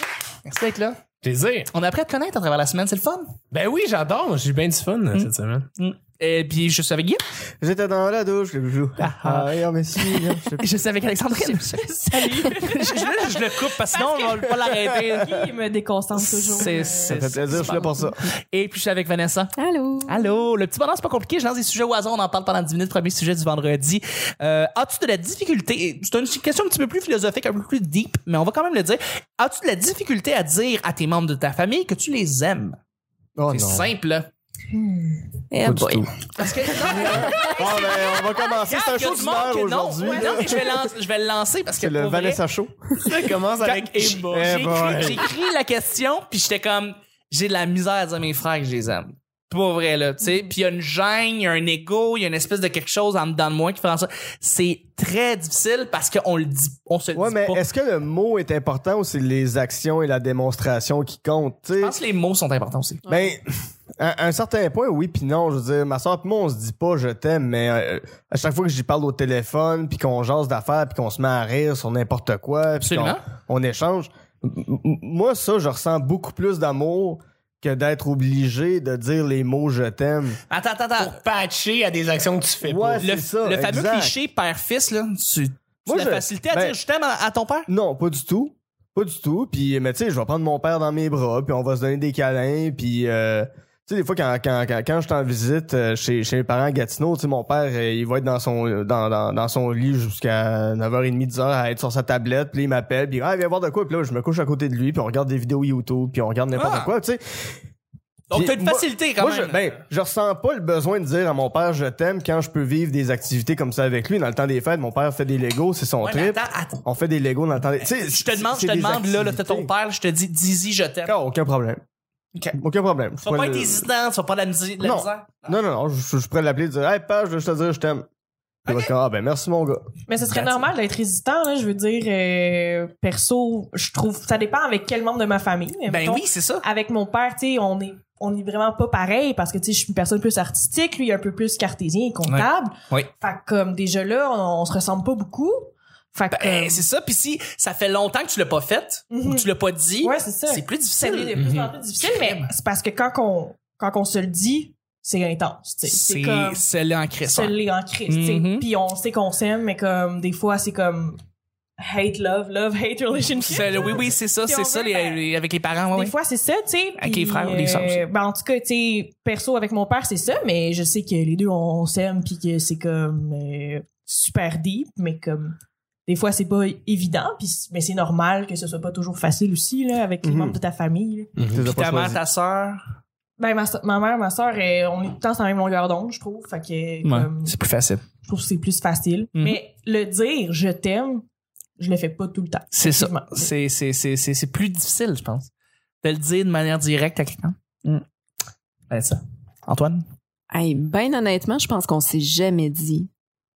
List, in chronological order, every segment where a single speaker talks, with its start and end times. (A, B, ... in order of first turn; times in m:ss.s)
0:00.4-0:01.0 A
0:01.2-0:01.7 B
0:01.7-0:03.3 A
0:03.5-0:05.7 B
0:05.1-0:07.2 A
0:07.6-0:10.6 C
0:09.0-0:09.5 A
0:10.0-0:15.4 A
0:11.6-0:17.2 D
0:16.2-0:19.5 A
0:17.1-0:18.2 C
0:17.6-0:18.1 E
0:19.6-0:20.3 E
0:20.1-0:32.8 A
0:33.4-0:33.9 C
0:33.5-0:34.3 A
0:34.7-0:35.2 D
0:35.5-0:36.0 E
0:35.6-0:36.1 C
0:36.4-0:42.4 A
0:36.8-0:40.6 C
0:37.1-0:37.5 E
0:40.0-0:40.6 D
0:41.8-0:43.0 C
0:43.0-0:45.0 B
0:43.6-0:57.6 A
0:44.3-0:45.3 C
0:57.1-1:01.9 C
1:01.8-1:03.0 A
1:03.1-1:03.4 C
1:04.0-1:20.4 C
1:12.8-1:13.2 A
1:20.5-1:21.2 A
1:21.0-1:23.0 B
1:22.6-1:24.1 C
1:23.0-1:27.7 A
1:25.8-1:26.8 C
1:27.7-1:47.5 C
1:46.5-1:46.9 A
1:48.3-1:49.7 A
1:48.3-1:59.7 C
1:56.0-1:56.8 A
1:58.0-2:01.1 A
2:01.0-2:01.8 C
2:02.6-2:03.8 C
2:03.2-2:05.6 A
2:04.8-2:08.0 C
2:08.6-2:08.9 A
2:08.6-2:09.9 C
2:10.1-2:26.8 D
2:10.3-2:10.6 A
2:15.9-2:16.6 A
2:22.2-2:23.1 A
2:26.3-2:32.5 A
2:29.1-2:29.4 D
2:30.0-2:36.6 D
2:31.4-2:31.7 B
2:35.8-2:38.7 A
2:37.3-2:41.2 D
2:41.8-2:45.2 D
2:43.4-2:46.1 A
2:45.9-3:01.3 D
2:47.0-2:48.0 A
3:00.2-3:00.6 C
3:01.4-3:01.6 B
3:01.5-3:02.2 C
3:01.6-3:02.8 A
3:03.4-3:07.5 D
3:07.0-3:08.0 A
3:08.2-3:11.2 D
3:11.8-3:13.5 D
3:12.7-3:15.5 A
3:16.0-3:18.0 A
3:18.9-3:20.0 A
3:20.5-3:23.1 E